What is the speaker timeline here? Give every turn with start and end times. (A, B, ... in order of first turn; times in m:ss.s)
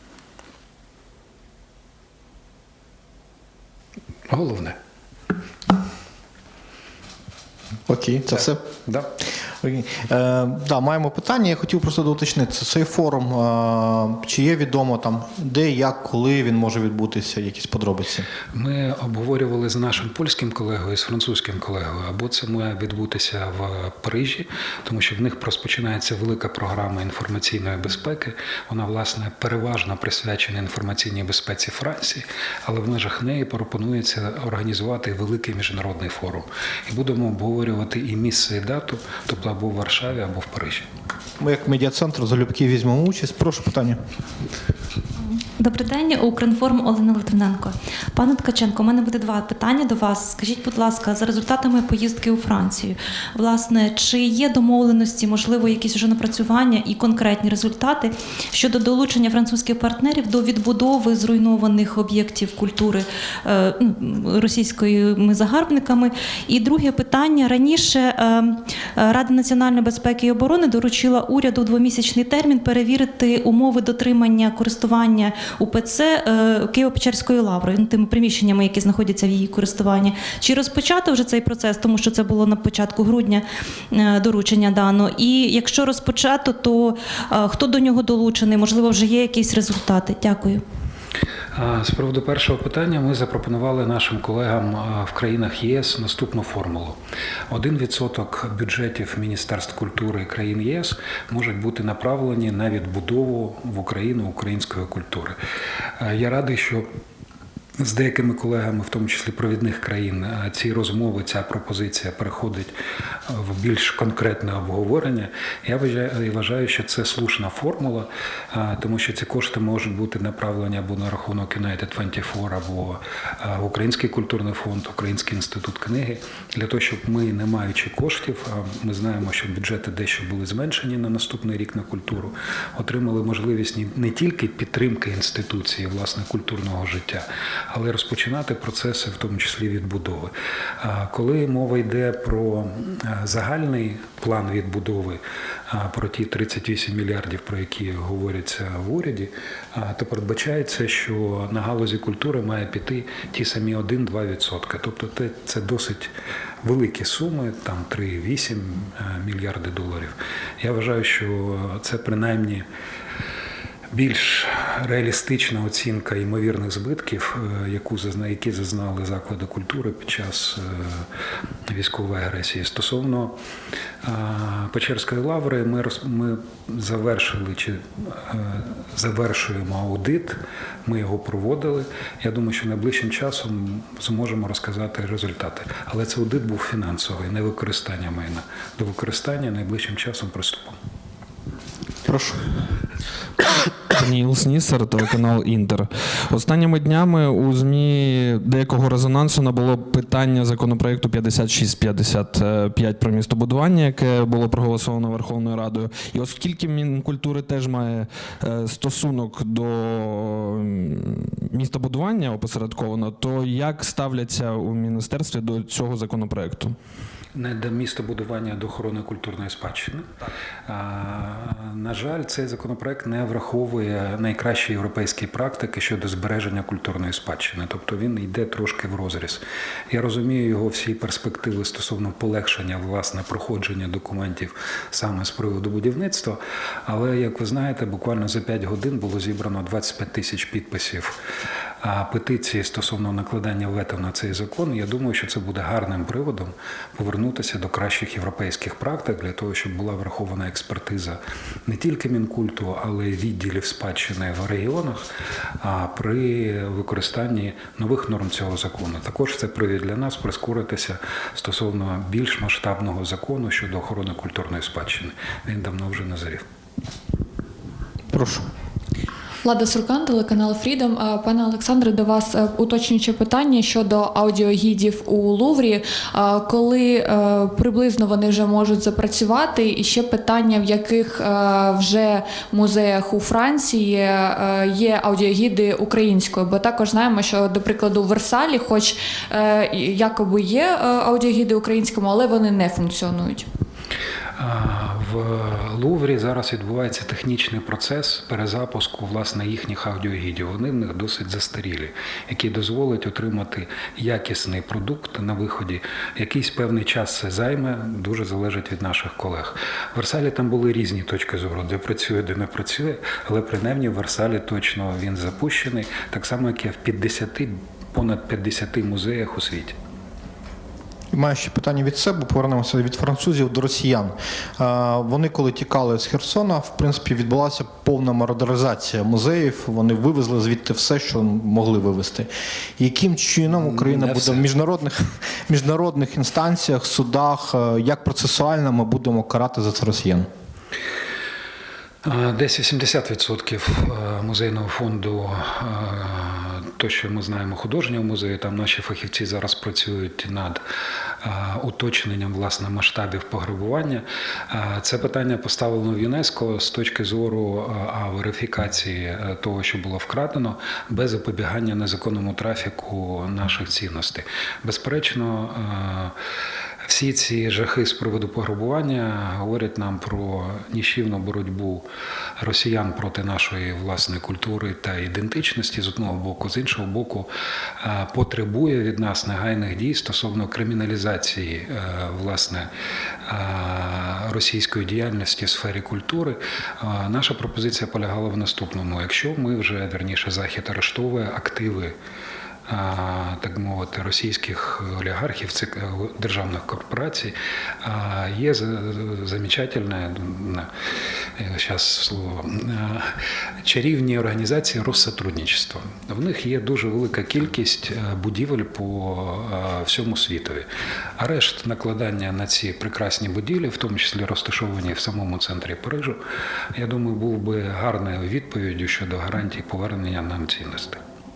0:04.3-0:04.8 A
0:07.9-0:08.6 B
0:08.4-0:09.1 A
0:09.6-0:18.3 B
0:18.5-0:40.9 A
0:41.4-0:44.0 B
0:45.2-1:30.6 C
1:31.5-1:37.0 A
1:37.5-1:45.4 A
1:46.0-1:46.8 A
1:47.8-1:52.7 A
1:53.3-2:36.1 A
2:36.6-2:42.7 A
2:43.9-2:51.0 A
2:51.7-2:53.4 A
2:54.0-3:10.8 A
3:12.1-3:12.4 B
3:13.8-3:36.8 D
3:37.3-3:40.1 A
3:40.7-4:01.2 A
4:01.8-4:15.0 A
4:15.6-4:26.4 A
4:28.1-4:28.4 B
4:29.4-4:53.5 E
4:54.4-5:19.8 A
5:21.1-5:40.3 B
5:33.5-5:34.5 A
5:42.0-5:50.6 A
5:51.2-6:06.1 A
6:06.8-6:11.9 A
6:12.4-6:17.3 A
6:17.8-6:22.7 A
6:23.3-6:32.0 A
6:32.7-6:40.7 A
6:41.4-6:43.1 A
6:43.6-6:50.7 A
6:51.2-6:56.2 A
6:56.8-7:01.0 A